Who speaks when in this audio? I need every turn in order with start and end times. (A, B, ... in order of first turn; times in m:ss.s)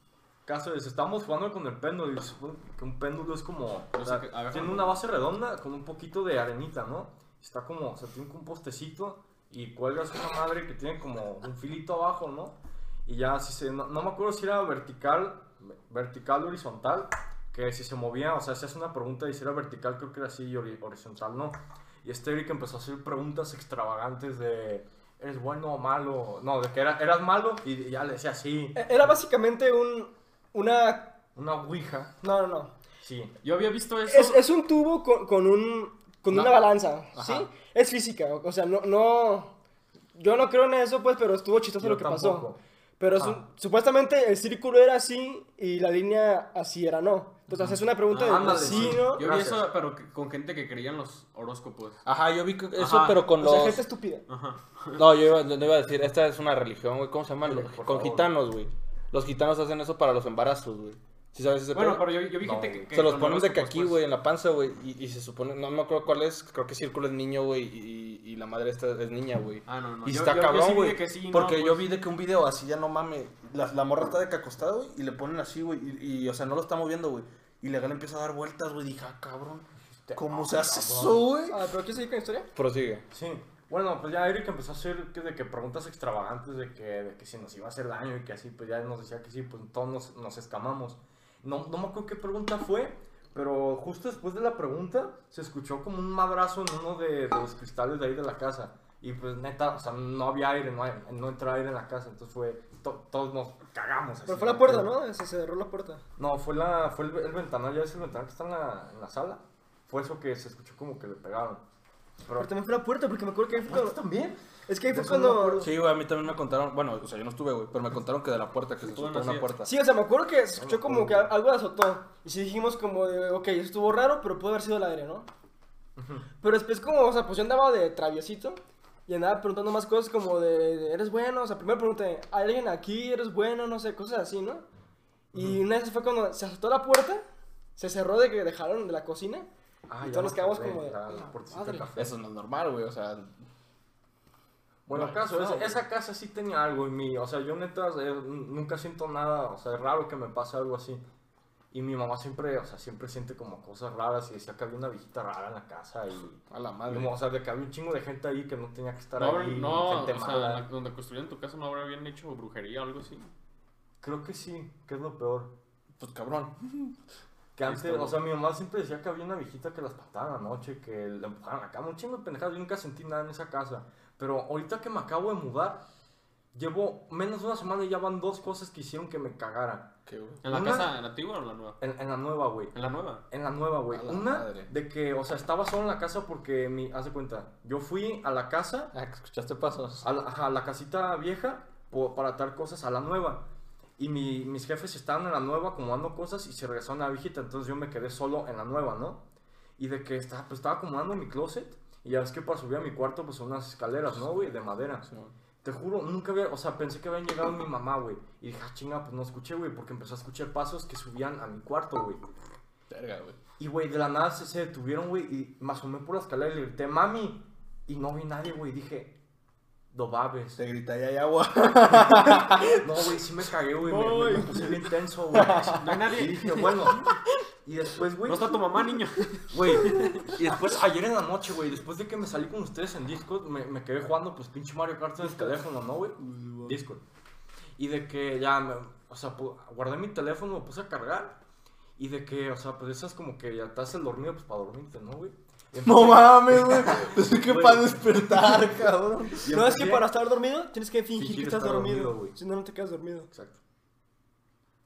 0:00.5-0:28.9 A
0:03.9-0:05.0 B
0:28.8-0:31.2 C
0:31.4-0:32.2 A
0:32.2-0:32.7 C
0:33.0-0:33.4 A
0:33.4-0:34.4 B
0:34.1-0:39.5 C
0:36.3-0:36.6 D
0:37.1-0:37.5 D
0:40.2-0:49.3 C
0:41.8-0:42.6 A
0:48.1-0:52.0 B
0:48.2-0:49.7 A
0:52.0-0:53.8 D
0:52.8-0:53.2 B
0:53.4-0:54.2 C
0:54.3-0:55.0 B
0:55.0-1:02.1 D
0:57.4-0:58.3 A
1:01.7-1:04.0 B
1:02.4-1:02.9 A
1:02.9-1:21.6 D
1:09.7-1:11.9 B
1:19.9-1:21.3 A
1:21.5-1:22.5 C
1:22.6-1:23.0 D
1:23.1-1:45.0 A
1:44.3-1:46.0 C
1:46.2-1:51.6 A
1:52.2-1:52.5 A
1:52.4-1:54.0 C
1:53.7-1:55.7 A
1:54.7-1:55.7 C
1:55.6-1:59.7 D
1:58.8-1:59.5 B
1:59.6-2:05.3 C
2:00.6-2:01.3 A
2:06.0-2:06.3 A
2:06.4-2:14.6 C
2:15.3-2:17.2 C
2:17.8-2:19.5 C
2:19.9-2:22.1 A
2:20.0-2:21.9 C
2:22.0-2:23.4 D
2:24.9-2:31.0 A
2:24.9-2:25.8 D
2:31.7-2:40.7 A
2:36.5-2:37.1 D
2:39.2-2:43.3 B
2:44.0-2:45.6 A
2:46.0-2:47.0 D
2:47.6-2:55.8 A
2:47.7-2:48.2 B
2:56.5-2:59.9 A
3:00.1-3:00.4 D
3:00.4-3:01.8 B
3:00.4-3:00.9 A
3:01.8-3:02.7 A
3:02.7-3:03.2 B
3:03.3-3:08.9 A
3:03.9-3:04.7 D
3:08.9-3:10.1 D
3:10.0-3:13.5 A
3:14.0-3:19.2 A
3:19.8-3:25.1 A
3:24.1-3:25.3 D
3:25.6-3:32.2 A
3:32.9-3:33.4 D
3:33.6-3:39.2 A
3:39.9-3:40.6 A
3:40.6-3:43.2 D
3:42.0-3:47.1 A
3:43.8-3:44.7 C
3:45.3-3:47.1 D
3:45.8-3:46.9 B
3:47.6-3:48.6 A
3:48.2-3:50.3 B
3:49.5-3:57.0 A
3:57.8-4:01.4 A
4:02.0-4:08.6 A
4:05.8-4:09.5 D
4:09.4-4:10.1 A
4:09.5-4:13.3 C
4:11.1-4:12.4 A
4:13.3-4:13.6 A